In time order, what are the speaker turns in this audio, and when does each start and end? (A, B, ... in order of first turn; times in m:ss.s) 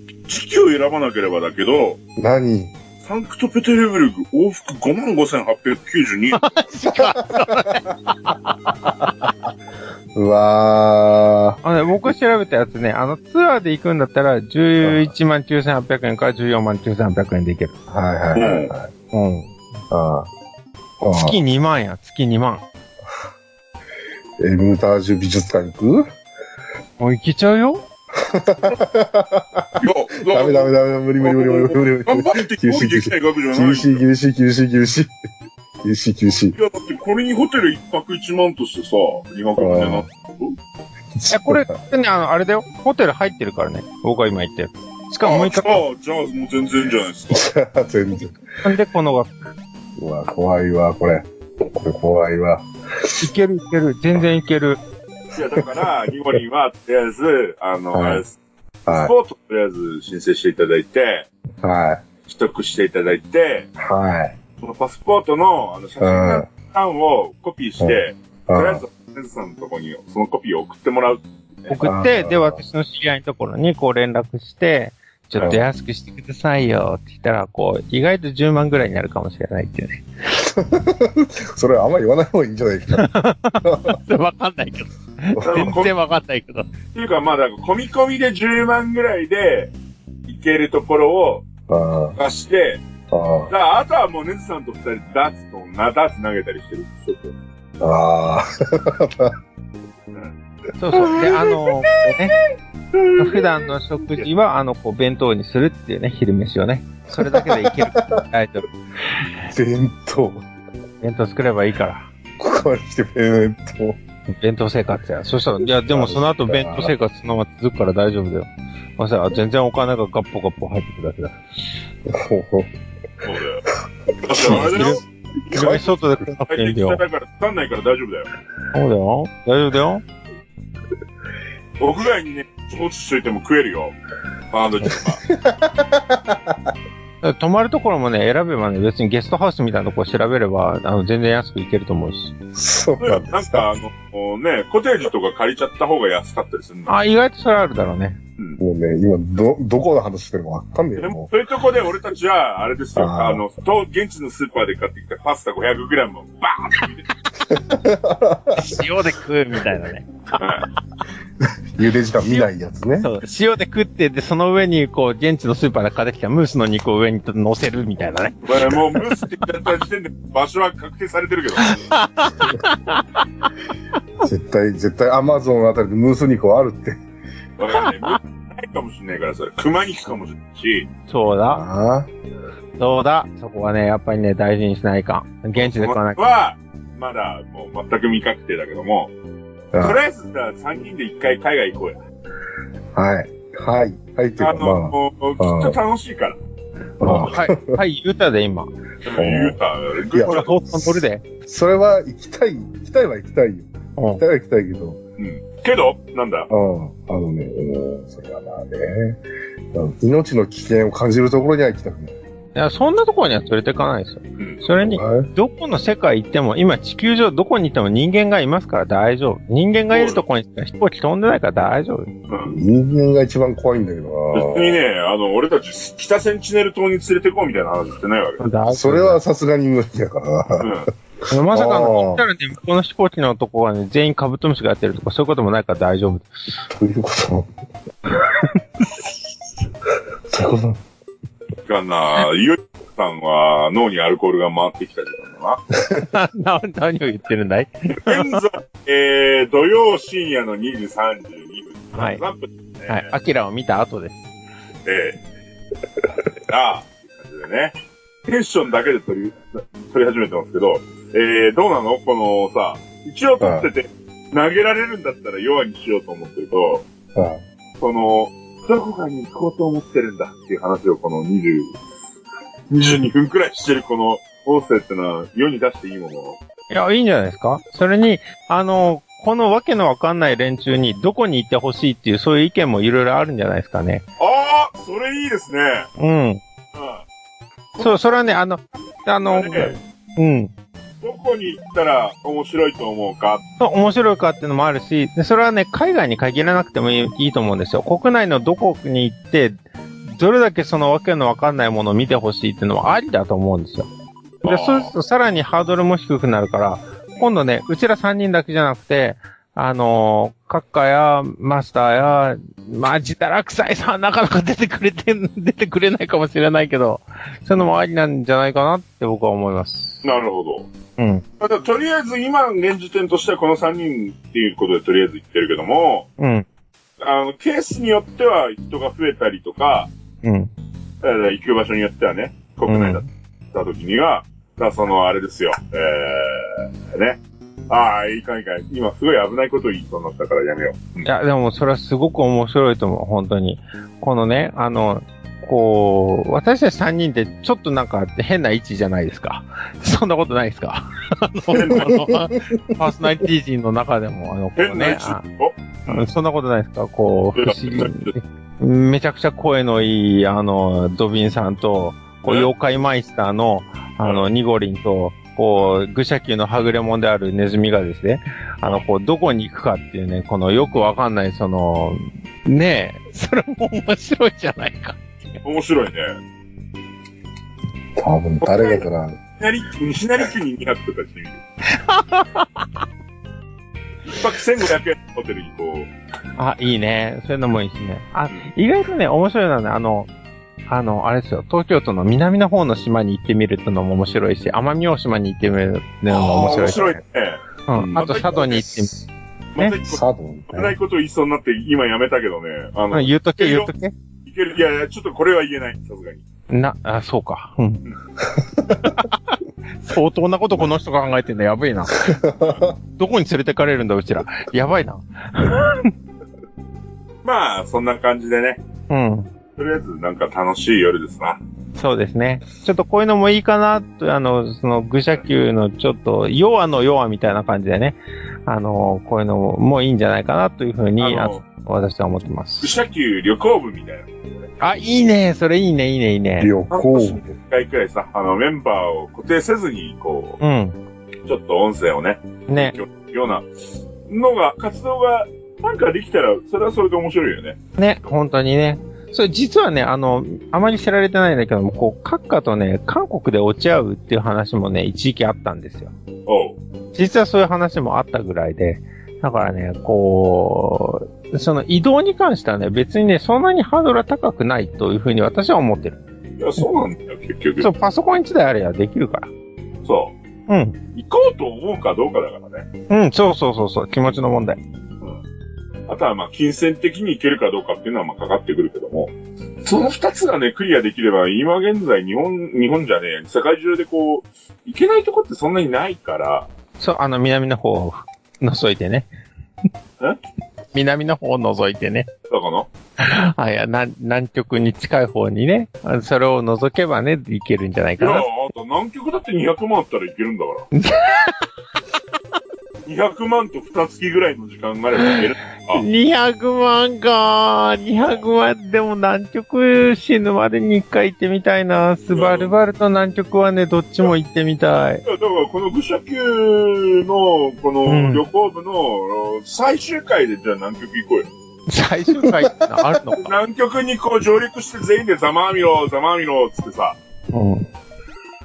0:00.3-0:02.0 A
0:02.2-0:02.7 B
0:03.0-0:06.4 A
0:06.3-0:08.9 C
0:06.9-0:07.8 B
0:08.7-0:09.3 B
0:10.1-0:11.6 B
0:11.6-0:17.7 C
0:14.8-0:15.1 B
0:17.9-0:18.9 B
0:18.3-0:18.7 A
0:19.1-0:19.5 C
0:19.9-0:20.3 B
0:21.0-0:21.4 B
0:21.0-0:22.6 C
0:24.4-0:26.0 B
0:27.0-0:27.8 C
0:28.2-0:35.2 B
0:29.8-0:34.0 A
0:35.8-0:36.6 B
0:36.5-0:40.5 A
0:39.6-0:40.0 B
0:41.1-0:41.7 B
0:41.3-0:45.8 C
0:45.2-0:47.4 A
0:47.3-0:48.4 B
0:48.6-0:49.3 C
0:50.0-0:53.2 B
0:53.2-0:54.8 C
0:55.3-0:58.4 A
0:55.6-0:55.9 B
0:57.9-0:58.2 B
0:58.8-0:59.1 B
0:58.9-1:01.3 A
1:01.6-1:02.0 B
1:02.3-1:03.7 A
1:03.8-1:04.4 B
1:04.6-1:11.8 A
1:06.0-1:06.5 B
1:07.8-1:08.8 B
1:11.7-1:20.0 C
1:11.8-1:12.6 B
1:15.4-1:15.6 B
1:20.4-1:23.1 B
1:22.9-1:26.7 C
1:23.6-1:24.0 B
1:25.4-1:25.7 B
1:25.4-1:25.9 A
1:26.9-1:29.7 A
1:30.3-1:31.4 A
1:31.7-1:32.2 B
1:32.2-1:32.8 A
1:33.1-1:33.5 B
1:33.5-1:37.4 A
1:37.8-1:39.3 B
1:40.8-1:42.4 C
1:41.0-1:41.3 A
1:42.9-1:44.2 A
1:43.2-1:48.7 C
1:47.1-1:48.2 B
1:49.5-1:50.4 B
1:51.0-1:52.1 C
1:52.4-1:54.0 B
1:54.4-2:01.4 C
1:55.9-1:56.9 B
2:02.1-2:02.7 B
2:03.2-2:03.6 A
2:04.2-2:08.3 A
2:04.3-2:04.9 B
2:04.4-2:07.0 C
2:05.6-2:05.9 B
2:08.7-2:10.0 C
2:11.8-2:14.0 A
2:14.5-2:15.2 A
2:14.8-2:16.7 B
2:17.2-2:22.4 C
2:22.5-2:23.7 B
2:23.0-2:26.9 A
2:26.9-2:28.2 C
2:28.6-2:31.3 B
2:31.0-2:37.1 A
2:33.0-2:33.4 B
2:37.4-2:38.9 B
2:38.5-2:40.1 C
2:40.4-2:40.6 A
2:41.4-2:43.1 B
2:43.0-2:49.2 C
2:48.4-2:51.8 A
2:51.6-2:53.2 C
2:54.2-2:57.0 B
2:57.6-3:00.9 A
2:57.8-2:58.2 C
3:01.1-3:01.6 C
3:01.5-3:02.1 B
3:02.8-3:06.2 C
3:05.6-3:09.1 A
3:09.7-3:10.0 B
3:09.8-3:12.0 A
3:12.9-3:15.8 B
3:14.4-3:16.4 A
3:17.0-3:17.8 B
3:17.0-3:18.7 C
3:19.0-3:20.5 A
3:19.1-3:19.6 B
3:20.1-3:25.0 B
3:20.2-3:21.2 C
3:24.0-3:24.2 C
3:25.2-3:26.5 A
3:26.5-3:29.2 B
3:29.7-3:32.2 B
3:32.5-3:42.1 C
3:34.8-3:35.3 B
3:39.9-3:40.2 A
3:42.3-3:42.6 A
3:42.5-3:44.8 B
3:44.3-3:48.4 A
3:48.4-3:49.2 C
3:48.7-3:50.7 B
3:50.6-3:50.9 A
3:51.3-3:56.3 C
3:51.5-3:52.2 B
3:56.7-3:57.5 B
4:00.3-4:00.8 B
4:01.6-4:05.6 A
4:06.0-4:08.4 C
4:07.9-4:13.1 A
4:11.9-4:12.2 C
4:12.9-4:14.3 C
4:14.8-4:15.2 A
4:16.4-4:26.8 A
4:23.4-4:23.7 B
4:27.1-4:27.4 B
4:27.8-4:31.8 A
4:32.7-4:36.4 A
4:36.7-4:44.0 C
4:44.2-4:45.9 A
4:46.0-4:46.4 C
4:46.7-4:47.0 A
4:47.7-4:48.3 A
4:47.8-4:50.5 C
4:49.2-4:49.8 A
4:51.0-4:53.4 A
4:53.6-5:03.9 C
5:04.4-5:04.9 A
5:04.4-5:20.0 C
5:20.0-5:20.7 A
5:21.0-5:21.2 C
5:21.4-5:26.1 A
5:26.2-5:26.4 C
5:27.0-5:29.9 A
5:30.2-5:30.5 C
5:31.0-5:41.1 A
5:32.6-5:33.1 C
5:41.0-5:55.2 C
5:51.5-5:52.2 A
5:51.8-5:52.6 B
5:54.6-5:56.1 A
5:55.9-6:15.0 C
5:57.4-5:58.1 A
6:04.0-6:04.3 A
6:15.4-6:16.2 A
6:18.0-6:19.2 B
6:18.4-6:18.8 A
6:19.4-6:21.4 A
6:21.6-6:22.7 C
6:24.0-6:25.9 A
6:26.4-6:30.1 C
6:30.7-6:37.0 C
6:36.1-6:38.7 A
6:37.7-6:38.9 C
6:39.5-6:43.7 A
6:39.8-6:40.8 B
6:42.9-6:43.9 C
6:44.2-6:46.2 A
6:46.5-6:47.8 C
6:48.2-6:49.1 B
6:48.8-6:52.1 C
6:52.0-6:52.8 B
6:53.0-6:55.9 C
6:57.2-6:58.6 A
6:58.9-6:59.3 C
6:59.6-7:01.4 A
7:01.8-7:12.7 C
7:11.0-7:11.4 A
7:12.6-7:14.5 A
7:14.6-7:16.5 C
7:16.4-7:17.3 B
7:16.7-7:20.4 A
7:20.4-7:20.8 C
7:21.2-7:23.4 A
7:22.5-7:22.8 C
7:24.1-7:27.6 A
7:27.8-7:35.9 C
7:36.3-7:36.6 A
7:36.9-7:46.0 C
7:46.4-7:47.7 A
7:47.6-7:49.3 C
7:49.8-7:50.1 A
7:50.5-7:50.8 C
7:50.9-7:52.7 A
7:52.9-7:54.6 C
7:55.9-8:06.5 A
8:06.8-8:09.1 C
8:10.7-8:12.1 C
8:12.3-8:12.7 A
8:13.0-8:18.3 C
8:18.0-8:20.7 A
8:20.7-8:21.5 C
8:22.8-8:25.8 A
8:25.7-8:35.0 C
8:28.0-8:28.2 A
8:32.1-8:32.6 A
8:35.0-8:41.3 A
8:37.8-8:38.2 C
8:41.7-8:43.2 C
8:43.2-8:47.0 A
8:47.3-8:47.7 C